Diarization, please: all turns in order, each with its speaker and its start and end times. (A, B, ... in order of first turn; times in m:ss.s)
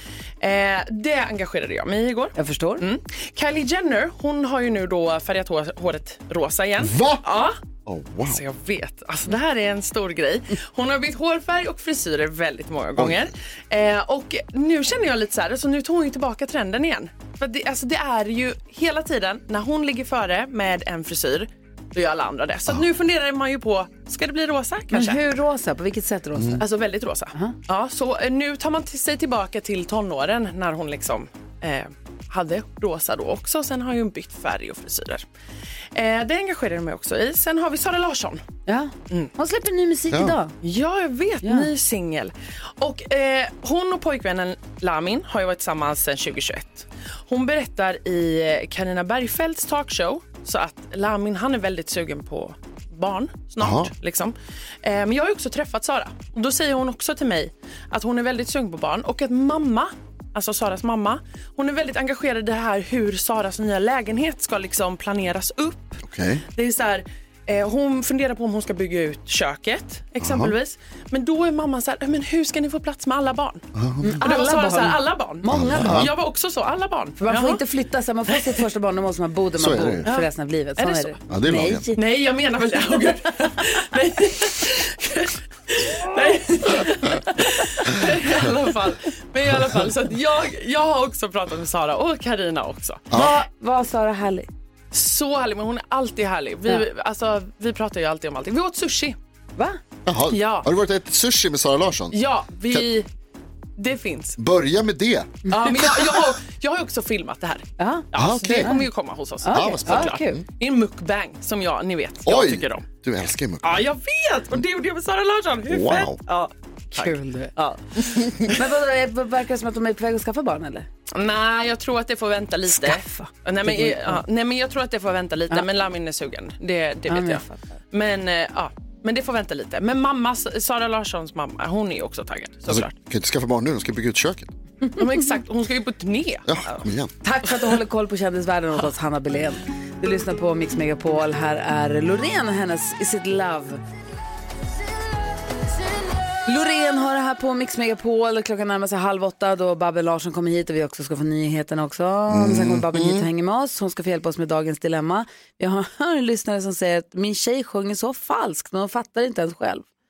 0:00.4-0:07.6 A
0:02.4-0:02.8 B
0:06.8-0:07.2 C
0:07.8-0:08.4 C
0:08.2-0:25.2 A
0:13.0-0:13.3 C
0:24.9-0:26.6 B
0:26.3-0:26.6 C
0:26.6-0:35.2 A
0:35.9-0:38.4 A
0:38.6-0:40.5 B
0:40.6-1:06.0 A
0:41.4-0:41.7 B
0:53.6-0:53.9 C
1:06.0-1:06.4 C
1:06.5-1:13.6 A
1:10.2-1:10.5 C
1:13.7-1:14.2 C
1:14.0-1:16.1 B
1:14.2-1:17.6 A
1:15.5-1:16.1 C
1:17.2-1:22.0 B
1:19.6-1:20.0 C
1:20.1-1:21.1 A
1:21.3-1:21.8 C
1:22.0-1:33.0 A
1:33.1-1:33.4 C
1:33.1-1:34.5 B
1:34.9-1:39.2 A
1:40.0-1:42.2 C
1:40.3-1:40.7 A
1:42.1-1:43.1 A
1:43.8-1:44.4 A
1:44.4-1:45.3 C
1:45.5-1:45.7 B
1:45.5-1:52.8 A
1:47.8-1:48.1 B
1:48.2-1:48.7 C
1:48.6-1:48.8 B
1:49.4-1:50.4 B
1:49.5-1:50.4 C
1:52.2-1:53.8 C
1:53.6-1:58.6 A
1:55.7-1:56.2 C
1:56.9-1:57.5 B
1:58.5-2:00.9 B
2:01.1-2:12.9 A
2:02.7-2:04.2 B
2:07.1-2:07.8 B
2:12.7-2:14.5 C
2:15.0-2:16.9 A
2:16.5-2:17.1 C
2:17.2-2:23.8 B
2:26.4-2:39.9 B
2:32.3-2:33.2 C